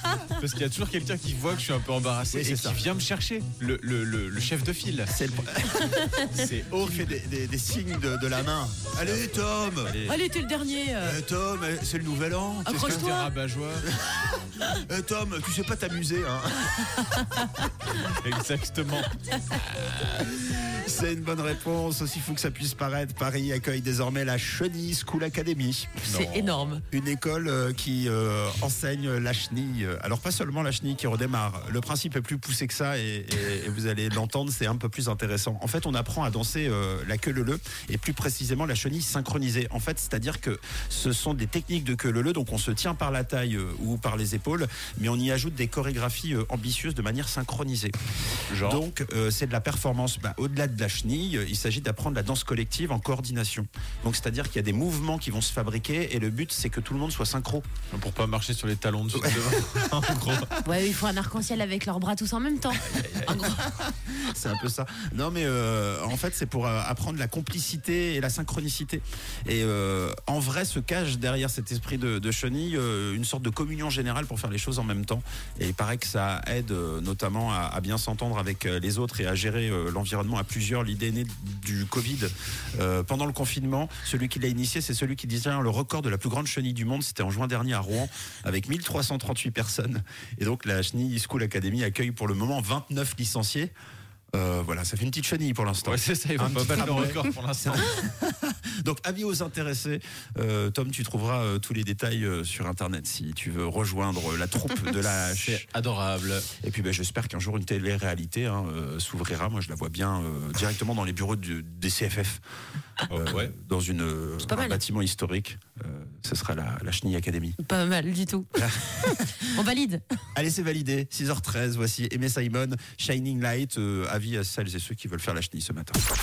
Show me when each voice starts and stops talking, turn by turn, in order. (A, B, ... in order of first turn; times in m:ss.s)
0:00.2-0:05.1 A
0:02.3-0:02.8 B
0:05.1-0:10.1 B
0:05.8-0:06.3 C
0:06.3-0:07.0 A
0:09.0-0:10.1 A
0:10.0-0:11.2 C
0:11.0-0:13.1 B
0:12.7-0:13.3 C
0:12.8-0:13.9 A
0:13.8-0:17.3 B
0:18.0-0:19.1 A
0:20.0-0:26.0 B
0:26.1-0:26.6 A
0:26.1-0:26.8 C
0:26.9-0:48.0 B
0:48.5-0:48.8 A
0:48.6-0:57.7 B
0:57.9-1:00.5 A
0:59.2-1:00.6 B
1:00.6-1:03.7 C
1:02.9-1:03.4 A
1:03.0-1:33.7 B
1:34.3-1:45.6 B
1:35.8-1:38.0 A
1:45.2-1:46.5 A
1:46.6-1:52.4 B
1:53.1-1:53.5 A
1:53.1-1:57.6 B
1:54.4-1:54.8 C
1:57.6-2:00.0 C
1:58.6-1:59.5 B
2:00.3-2:06.0 B